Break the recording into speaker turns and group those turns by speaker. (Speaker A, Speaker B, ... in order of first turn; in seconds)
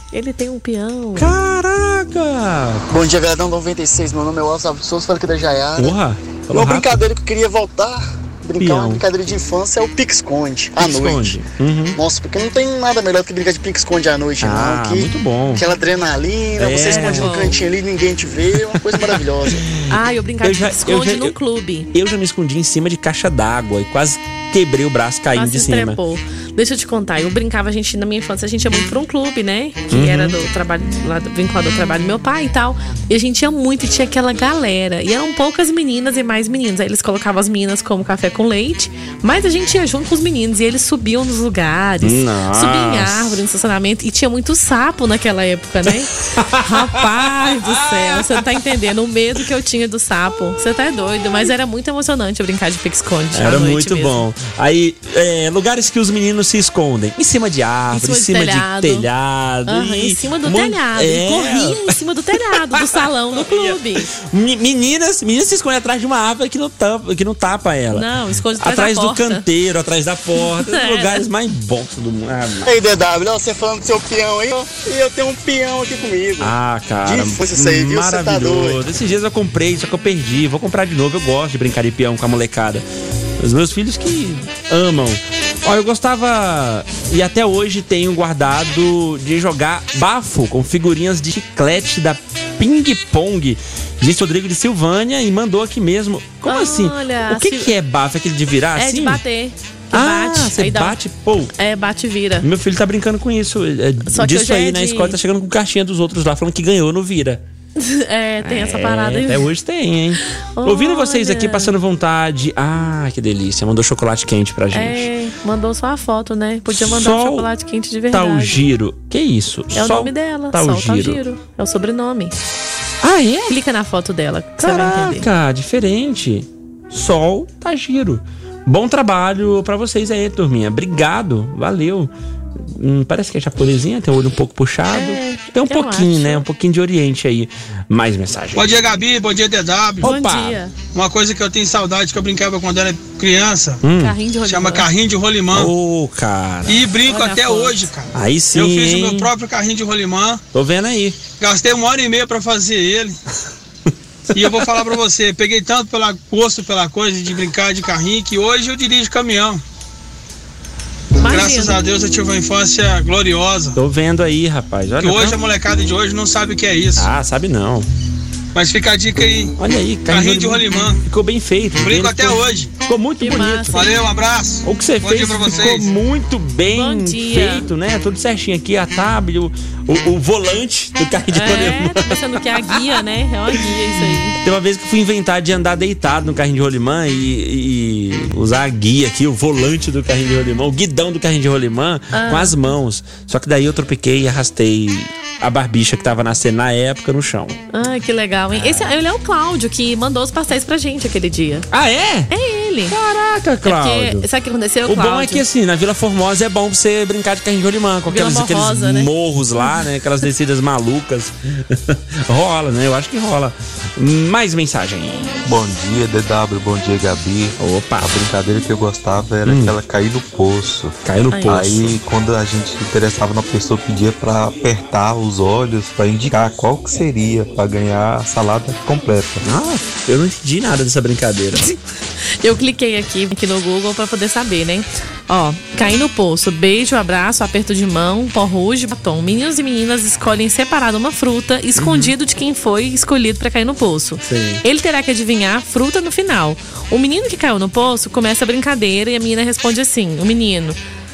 Speaker A: 0.1-1.3, 16.7-17.6, 19.9-21.9, 25.3-54.2, 57.9-59.1, 59.6-64.1, 67.9-69.4, 70.4-71.2, 96.4-97.7, 98.8-101.0, 101.5-102.5, 104.1-105.2, 107.8-109.5, 110.3-111.7, 114.7-118.6, 119.7-122.3, 123.5-125.3, 134.9-136.4, 140.0-140.7, 143.9-144.9, 147.1-147.9, 161.2-161.8, 173.2-173.9, 176.7-177.7, 181.3-184.4, 192.1-192.6, 197.7-201.7, 202.3-202.9, 203.6-205.4, 208.1-209.1, 221.3-221.7, 231.6-250.8
Speaker B: 1.1-2.9, 5.8-7.0, 8.6-9.0, 10.8-12.0, 14.4-15.6, 16.6-17.4, 18.7-19.9, 20.4-21.3, 21.9-26.0, 29.9-30.4, 42.0-43.4, 45.9-48.5, 53.3-72.7, 76.4-82.8, 83.4-99.2, 99.9-101.5, 102.4-107.4, 108.4-115.1, 116.7-117.5, 118.1-121.2, 123.0-123.5, 124.6-138.9, 140.0-140.6, 143.8-144.2, 145.5-146.9, 148.1-149.3, 150.5-151.2, 154.3-154.8, 163.8-165.4, 167.0-167.9, 169.6-173.9, 174.6-183.5, 184.3-197.6, 198.5-198.9, 201.7-202.3, 202.9-204.3, 204.8-215.5, 217.6-218.1, 219.4-219.7, 221.0-221.9, 229.4-231.7, 241.8-242.1, 244.2-244.6
Speaker C: 2.9-6.0, 6.5-11.4, 12.0-19.6, 72.6-78.8
Speaker D: 138.5-140.1, 140.9-143.8, 144.4-145.7, 146.7-150.4, 151.4-153.2, 154.3-159.6, 161.3-163.8, 165.0-167.1, 168.5-169.5, 170.1-171.0, 171.8-172.7, 173.7-175.9
Speaker E: 215.4-229.4